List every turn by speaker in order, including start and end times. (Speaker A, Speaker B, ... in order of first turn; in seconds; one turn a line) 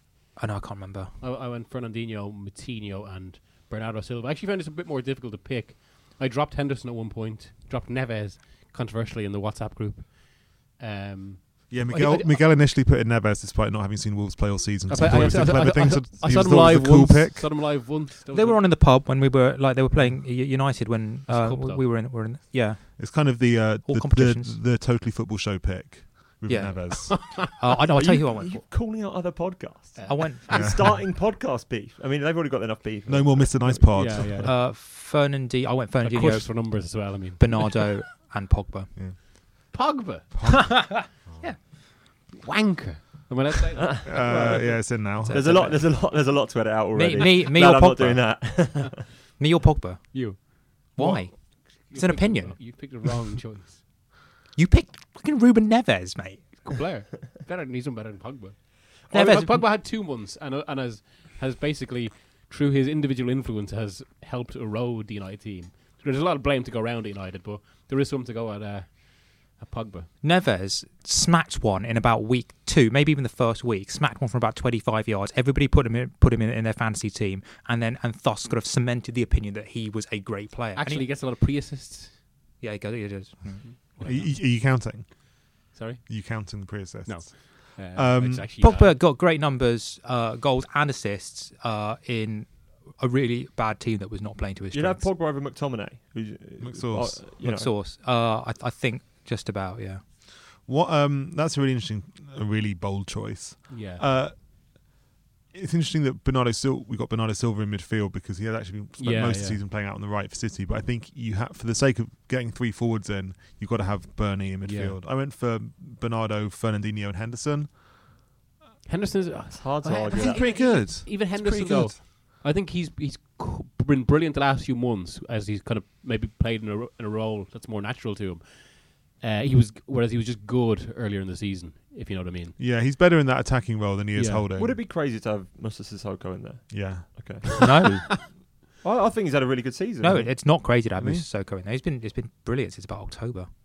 Speaker A: 0.3-1.1
Speaker B: 1.2-12.5
Speaker C: 11.7-17.5
Speaker B: 14.9-18.8
Speaker A: 15.1-15.4
Speaker A: 18.3-24.6
Speaker B: 21.3-21.9
Speaker C: 23.0-27.4
Speaker A: 26.5-28.6
Speaker B: 27.1-27.4
Speaker D: 27.9-34.3
Speaker B: 30.0-30.4
Speaker A: 30.1-30.8
Speaker C: 30.5-30.9
Speaker C: 33.1-34.5
Speaker B: 33.9-34.5
Speaker A: 34.4-38.9
Speaker B: 36.0-37.9
Speaker B: 39.7-44.7
Speaker C: 40.3-41.1
Speaker A: 40.5-41.6
Speaker D: 43.8-49.1
Speaker C: 44.0-45.6
Speaker A: 44.5-46.0
Speaker A: 46.9-48.5
Speaker A: 49.4-52.8
Speaker B: 50.1-53.8
Speaker C: 51.0-51.3
Speaker A: 54.5-56.7
Speaker B: 56.6-70.1
Speaker A: 59.1-59.7
Speaker A: 70.2-81.1
Speaker B: 80.8-82.2
Speaker A: 82.6-84.2
Speaker B: 83.6-84.3
Speaker C: 84.0-85.4
Speaker B: 85.7-89.0
Speaker C: 86.1-88.5
Speaker A: 88.6-95.1
Speaker D: 94.7-97.7
Speaker C: 96.6-97.4
Speaker A: 97.4-100.0
Speaker C: 100.6-104.9
Speaker B: 103.7-104.0
Speaker C: 105.5-117.8
Speaker B: 109.0-109.6
Speaker B: 114.6-115.0
Speaker B: 118.9-132.6
Speaker D: 119.5-120.9
Speaker C: 120.2-122.0
Speaker C: 132.6-134.8
Speaker B: 134.1-134.5
Speaker D: 134.6-137.5
Speaker C: 136.7-137.5
Speaker A: 137.5-138.3
Speaker B: 137.6-138.2
Speaker D: 138.8-140.3
Speaker A: 140.0-143.5
Speaker C: 141.0-141.3